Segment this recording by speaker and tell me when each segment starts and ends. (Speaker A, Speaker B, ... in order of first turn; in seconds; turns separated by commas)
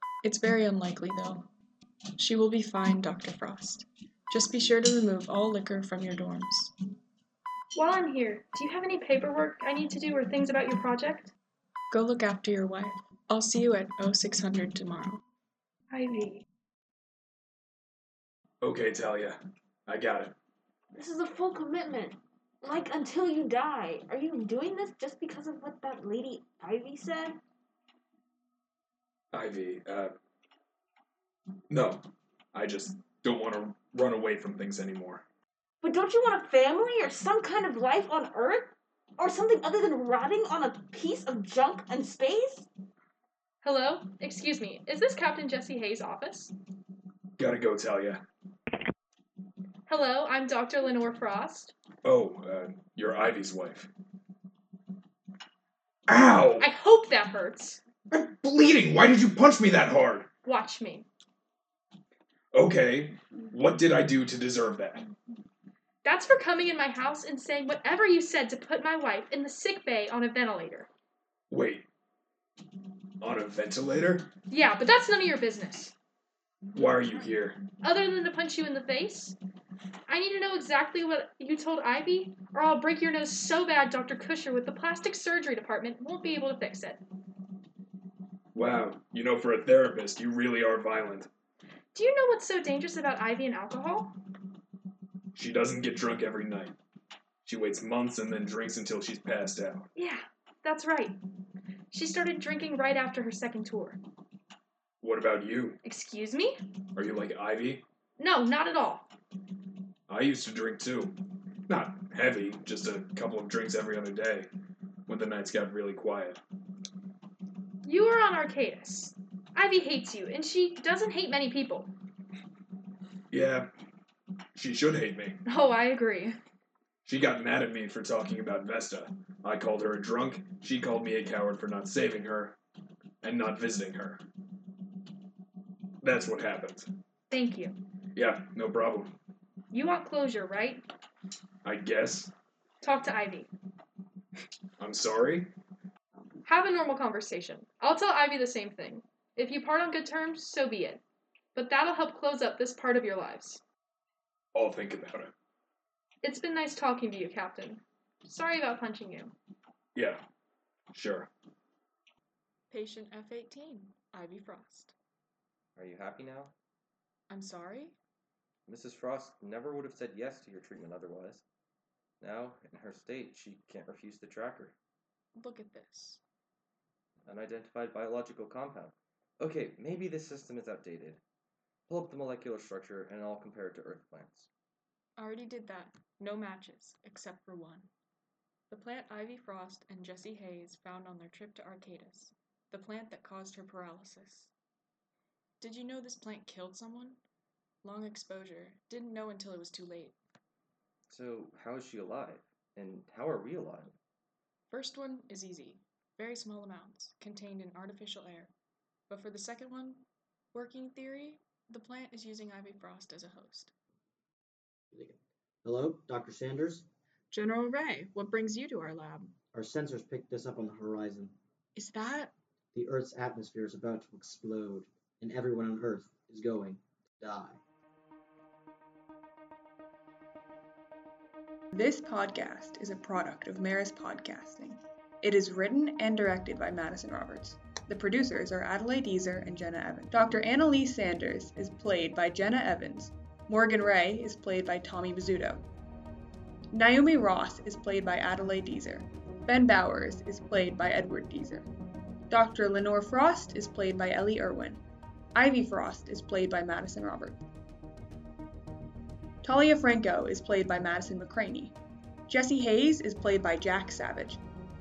Speaker A: 0.2-1.5, Speaker A: 2.2-6.7, Speaker B: 7.7-11.3, Speaker A: 11.9-15.2, Speaker B: 15.9-16.4, Speaker C: 18.6-20.3, Speaker D: 20.9-27.4, Speaker C: 29.3-30.1, Speaker C: 31.7-35.2, Speaker D: 35.8-42.7, Speaker B: 43.6-46.5, Speaker C: 47.4-48.2, Speaker B: 49.9-51.7, Speaker C: 52.0-53.9, Speaker C: 56.1-56.7, Speaker B: 56.6-57.8, Speaker C: 58.1-60.3, Speaker B: 60.4-61.0, Speaker C: 62.5-65.0, Speaker B: 66.0-70.9, Speaker C: 71.5-71.9, Speaker C: 73.2-74.3, Speaker B: 74.5-75.9, Speaker C: 76.7-77.6, Speaker B: 77.8-79.3, Speaker B: 80.1-87.0, Speaker C: 88.5-91.3, Speaker B: 91.9-94.1, Speaker C: 95.3-96.8, Speaker C: 97.4-99.9, Speaker B: 100.0-101.2, Speaker B: 101.9-104.0, Speaker C: 105.0-105.8, Speaker B: 105.8-106.5, Speaker C: 106.9-107.8, Speaker B: 108.2-109.1, Speaker C: 110.1-111.2, Speaker C: 111.7-114.5, Speaker C: 115.1-116.4, Speaker B: 117.8-121.9, Speaker C: 123.3-123.7, Speaker C: 124.5-125.4, Speaker B: 125.5-126.4, Speaker C: 127.0-132.6, Speaker C: 133.2-134.2, Speaker C: 136.0-136.9, Speaker B: 137.3-137.8, Speaker C: 138.1-139.1, Speaker B: 139.7-140.8, Speaker C: 141.6-142.3, Speaker B: 142.8-143.5, Speaker C: 144.8-145.5, Speaker B: 146.4-151.0, Speaker B: 151.5-153.6, Speaker C: 154.5-155.3, Speaker B: 156.2-159.3, Speaker C: 159.9-160.2, Speaker C: 160.9-161.3, Speaker A: 162.7-164.9, Speaker E: 165.8-166.5, Speaker A: 167.3-168.0, Speaker E: 168.7-171.4, Speaker E: 172.2-174.8, Speaker A: 175.3-176.2, Speaker E: 177.2-181.2, Speaker E: 181.9-184.5, Speaker A: 185.2-187.9, Speaker A: 188.7-194.5, Speaker A: 195.6-197.2, Speaker A: 197.8-200.1, Speaker E: 201.1-204.0, Speaker A: 204.7-208.5, Speaker A: 209.1-213.7, Speaker F: 214.9-216.8, Speaker A: 217.3-219.3, Speaker F: 219.5-221.3, Speaker A: 221.8-222.3, Speaker F: 222.7-227.6, Speaker G: 231.7-245.6, Speaker G: 246.7-251.7, Speaker G: 252.3-254.8, Speaker G: 255.3-257.4, Speaker G: 259.4-261.7, Speaker G: 262.3-264.4